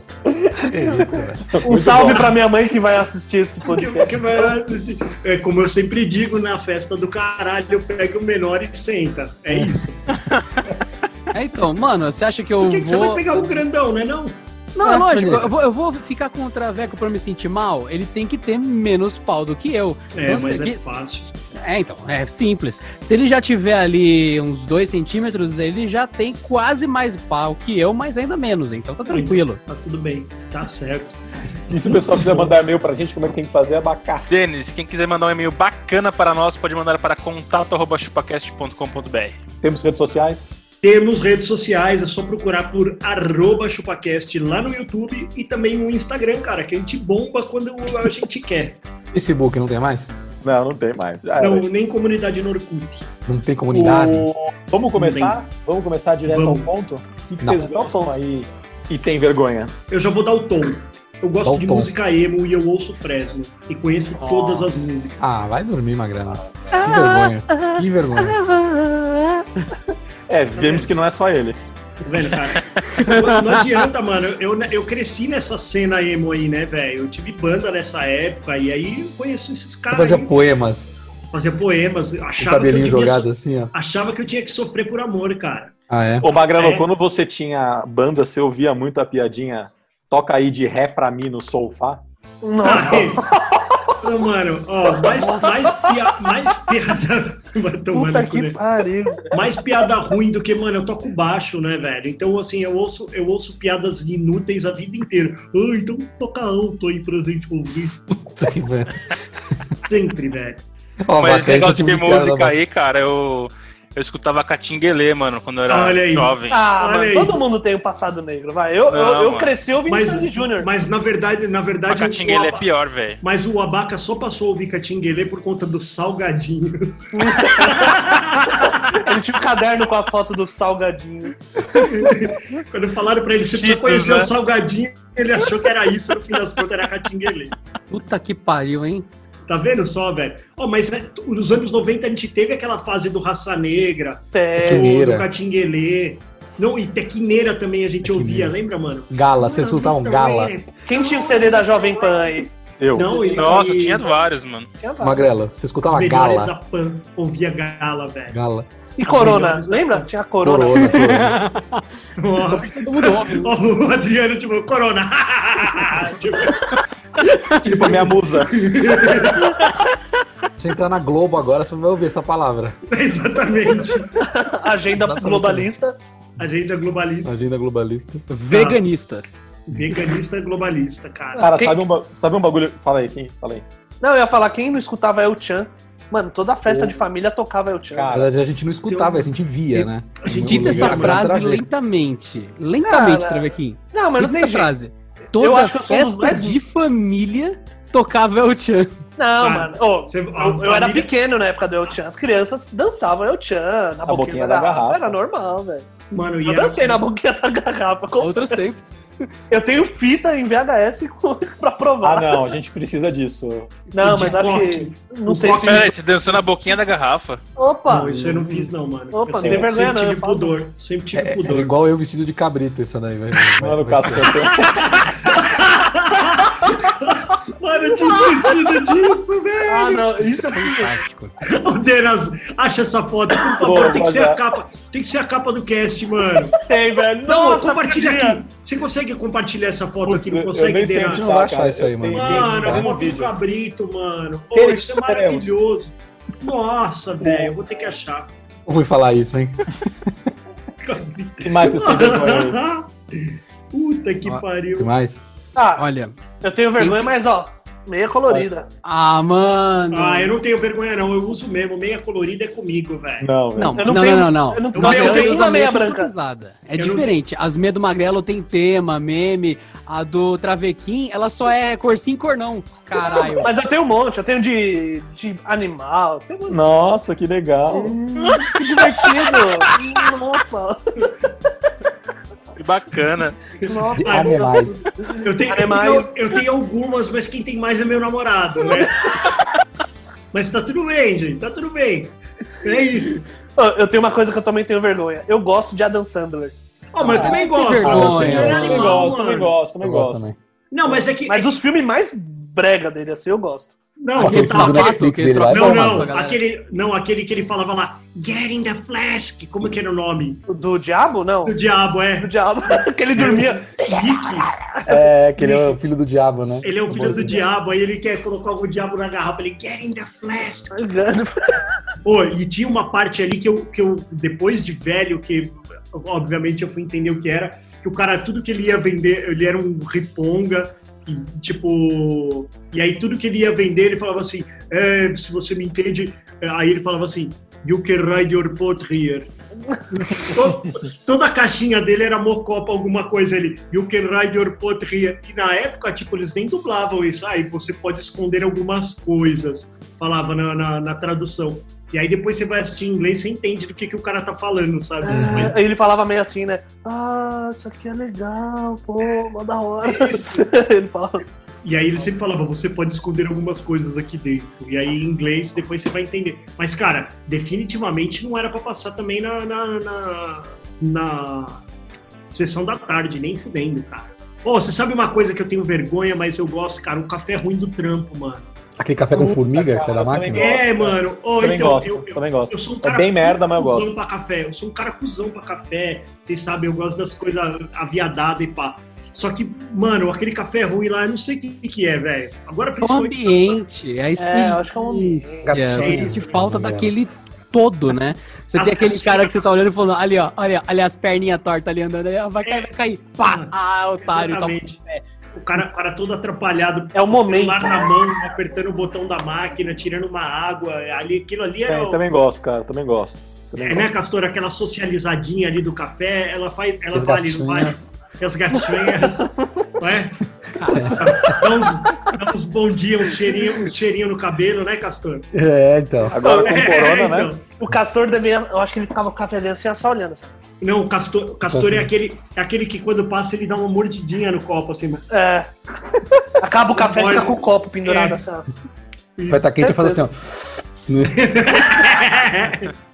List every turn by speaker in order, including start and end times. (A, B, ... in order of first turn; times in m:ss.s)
0:00.3-0:04.4 A
0:00.7-0:01.6 B
0:01.2-0:02.4 C
0:03.7-0:10.0 D
0:11.3-0:13.6 E
0:12.6-0:14.4 D
0:14.7-0:20.9 E
0:14.8-0:15.5 B
0:20.1-0:21.3 D
0:21.4-0:29.6 E
0:29.1-0:31.2 D
0:31.7-0:34.3 C
0:32.1-0:32.5 D
0:34.3-0:39.4 F
0:39.6-0:40.5 C
0:40.8-0:48.8 D
0:49.1-0:50.1 B
0:50.4-0:51.7 C
0:51.4-0:53.1 D
0:53.2-0:54.3 B
0:53.7-0:59.7 C
0:54.9-0:55.4 D
0:56.2-0:56.7 D
0:57.4-0:57.8 B
0:59.9-1:05.3 D
1:01.4-1:01.9 B
1:05.2-1:08.4 B
1:06.9-1:07.3 E
1:10.3-1:11.6 C
1:10.6-1:10.9 D
1:12.0-1:20.3 D
1:19.9-1:20.9 B
1:21.3-1:25.7 D
1:22.4-1:23.7 B
1:25.9-1:26.3 B
1:26.2-1:32.0 C
1:26.5-1:26.8 D
1:32.4-1:33.6 A
1:32.6-1:33.3 D
1:34.0-1:38.6 D
1:35.1-1:36.0 A
1:37.9-1:39.4 A
1:39.3-1:48.0 D
1:47.7-1:48.9 B
1:49.8-1:50.6 D
1:51.0-1:52.6 B
1:51.2-1:56.6 F
1:55.7-1:57.4 D
1:56.5-2:00.7 A
1:58.9-1:59.5 F
1:59.9-2:02.6 D
2:01.9-2:03.2 F
2:03.2-2:09.1 D
2:07.1-2:08.0 A
2:08.9-2:11.4 A
2:11.7-2:17.5 D
2:13.5-2:14.3 F
2:17.9-2:19.1 E
2:19.5-2:32.3 D
2:24.3-2:24.9 A
2:24.6-2:25.3 B
2:28.0-2:28.6 B
2:29.1-2:30.5 B
2:30.8-2:34.1 A
2:32.8-2:33.1 C
2:32.9-2:34.1 D
2:33.3-2:34.7 F
2:34.8-2:35.3 A
2:35.0-2:36.5 B
2:35.8-2:38.4 D
2:38.3-2:38.7 B
2:39.0-2:41.2 A
2:39.0-2:40.1 D
2:40.4-2:41.4 B
2:41.2-2:41.8 E
2:42.2-2:46.8 D
2:42.4-2:43.5 E
2:47.5-2:48.6 C
2:47.6-2:49.5 D
2:50.6-2:52.8 B
2:52.9-2:54.2 D
2:54.2-2:56.0 A
2:54.9-2:55.7 B
2:56.4-2:57.4 D
2:57.2-2:58.2 B
2:58.3-2:59.2 E
2:58.5-2:58.8 D
2:59.7-3:01.5 D
3:01.4-3:01.8 A
3:01.4-3:03.6 C
3:04.0-3:08.2 A
3:06.7-3:07.0 C
3:07.9-3:08.3 C
3:08.1-3:11.6 B
3:08.9-3:09.3 D
3:10.2-3:11.3 D
3:10.3-3:18.9 E
3:12.8-3:14.7 A
3:15.3-3:16.6 A
3:19.2-3:25.9 A
3:19.4-3:21.1 D
3:24.0-3:25.1 C
3:26.1-3:27.0 D
3:26.4-3:28.6 A
3:28.2-3:29.0 E
3:29.5-3:32.6 A
3:32.0-3:33.9 C
3:33.9-3:35.9 A
3:33.9-3:35.9 D
3:35.6-3:37.4 F
3:37.6-3:38.4 A
3:37.9-3:41.7 D
3:39.1-3:40.6 A
3:39.4-3:39.7 C
3:41.1-3:44.5 B
3:43.5-3:44.9 C
3:44.4-3:50.2 D
3:49.7-3:51.0 A
3:50.5-3:51.4 E
3:51.5-3:56.6 D
3:53.6-3:54.4 C
3:56.6-3:58.4 A
3:57.2-4:01.2 D
4:00.0-4:03.4 C
4:01.1-4:02.9 B
4:02.1-4:08.3 D
4:04.5-4:05.5 C
4:07.2-4:07.5 C
4:08.7-4:09.7 B
4:10.8-4:14.9 D
4:11.4-4:12.6 C
4:14.7-4:15.2 B
4:15.5-4:15.8 A
4:15.8-4:16.2 E
4:16.4-4:18.7 A
4:16.8-4:17.1 E
4:18.8-4:20.3 E
4:19.9-4:23.3 D
4:23.2-4:24.0 C
4:23.6-4:33.5 E
4:23.7-4:26.1 A
4:24.7-4:25.5 D
4:26.8-4:27.1 D
4:33.4-4:36.6 A
4:36.5-4:38.0 C
4:37.7-4:41.0 A
4:42.6-4:43.4 F
4:43.6-4:49.0 D
4:43.6-4:46.1 A
4:44.0-4:44.8 B
4:50.3-4:53.2 D
4:53.6-4:56.5 A
4:56.9-4:59.6 D
4:57.1-4:59.0 E
4:57.8-4:58.7 B
4:57.9-5:00.2 C
4:59.8-5:00.4 B
5:00.7-5:01.6 D
5:01.2-5:03.7 A
5:04.0-5:10.4 D
5:04.2-5:06.1 B
5:04.2-5:06.4 E
5:10.5-5:11.6 A
5:11.4-5:12.3 D
5:12.2-5:14.9 A
5:13.1-5:14.5 D
5:14.9-5:17.5 B
5:15.4-5:15.8 D
5:16.6-5:20.8 D
5:20.7-5:21.8 A
5:22.0-5:39.3 D
5:39.9-5:55.6 D
5:55.0-6:01.2 A
5:55.1-5:55.5 B
6:01.6-6:11.6 D
6:12.3-6:18.5 D
6:18.8-6:20.5 B
6:19.1-6:23.9 C
6:20.4-6:33.6 D
6:32.8-6:45.0 E
6:34.2-6:35.6 A
6:35.4-6:36.9 B
6:35.7-6:36.3 D
6:38.6-6:39.3 D
6:42.4-6:42.7 D
6:43.2-6:44.8 D
6:45.3-6:52.0 D
6:46.9-6:47.9 A
6:51.7-6:53.9 C
6:53.6-7:00.2 D
6:56.9-6:57.8 B
7:00.6-7:00.9 E
7:00.7-7:01.4 B
7:00.8-7:05.3 D
7:05.3-7:06.2 B
7:06.1-7:07.3 C
7:06.2-7:07.5 D
7:07.6-7:10.3 A
7:10.6-7:15.0 D
7:11.4-7:11.9 B
7:15.1-7:15.5 A
7:16.4-7:18.4 A
7:16.8-7:18.2 D
7:19.2-7:19.6 D
7:19.3-7:21.2 B
7:19.6-7:20.0 A
7:21.0-7:22.7 D